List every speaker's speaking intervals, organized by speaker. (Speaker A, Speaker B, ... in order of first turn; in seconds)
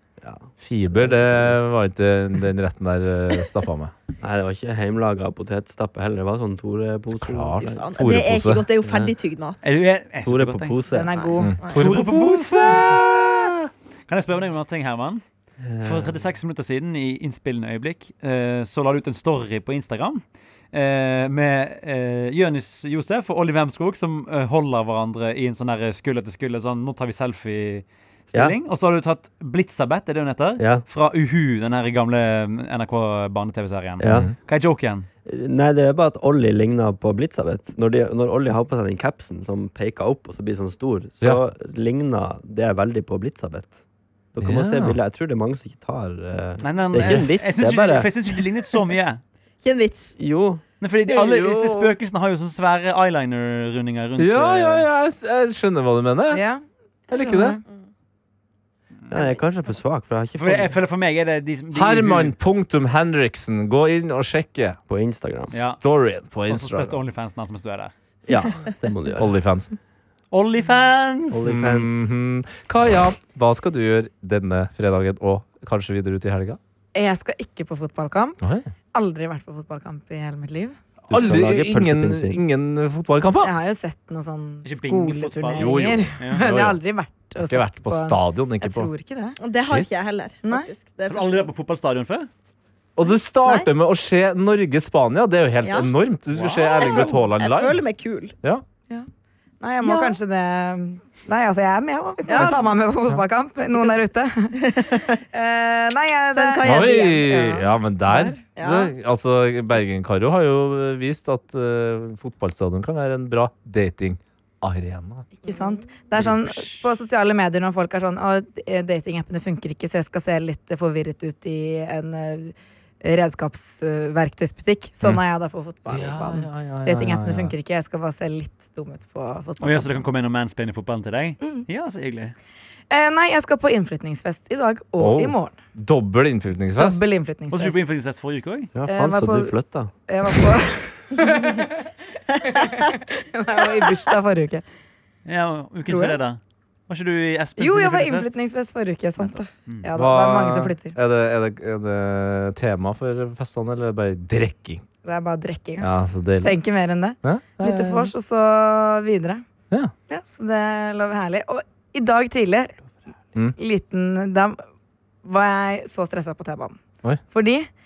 Speaker A: 0.2-1.6, 4.2-7.9, 8.8-9.1, 10.2-11.2, 15.6-16.2, 30.6-30.8, 34.0-34.3, 35.3-43.8, 44.4-48.1, 50.2-50.6, 59.1-60.8, 64.9-65.5, 68.3-69.3, 71.3-72.1, 81.1-82.4, 138.8-139.9
Speaker B: 0.6-3.9, 7.2-8.7, 11.4-13.6, 34.0-34.3, 44.4-45.0, 51.1-51.9, 54.2-56.4, 57.1-57.6, 61.7-64.8, 65.8-67.0, 69.2-69.8, 71.4-76.6, 78.4-78.7, 81.1-83.5, 85.6-86.8, 87.5-88.9, 89.6-89.9, 93.0-97.8, 106.6-115.3, 125.9-127.5, 135.0-137.1, 150.0-154.8, 155.8-156.6, 157.2-158.1
Speaker C: 7.6-9.7, 11.1-11.8, 49.6-50.2, 89.4-91.4, 93.4-93.7, 95.6-95.9, 96.7-98.4, 99.8-100.2, 102.3-102.7, 104.6-105.2, 106.3-107.5, 108.1-108.9, 141.2-141.5
Speaker D: 9.6-10.8, 11.7-13.0, 14.1-15.2, 15.8-35.1, 46.6-49.2, 50.8-54.9, 60.4-62.3, 65.5-65.8, 66.5-67.9, 70.3-71.5, 84.7-86.4, 91.1-92.3, 96.3-97.1, 129.6-132.3, 137.5-138.7, 145.3-148.3, 149.2-149.9
Speaker E: 10.9-11.6, 56.3-57.6, 76.9-78.4, 78.9-80.8, 83.4-89.4, 99.6-104.6, 105.3-107.7, 115.4-130.0, 132.9-135.6, 136.8-137.8, 138.9-139.6, 140.1-141.8, 142.4-144.6, 145.9-146.2, 147.6-151.0, 155.0-159.4, 160.1-162.8, 163.6-164.6, 165.2-166.8, 167.3-167.7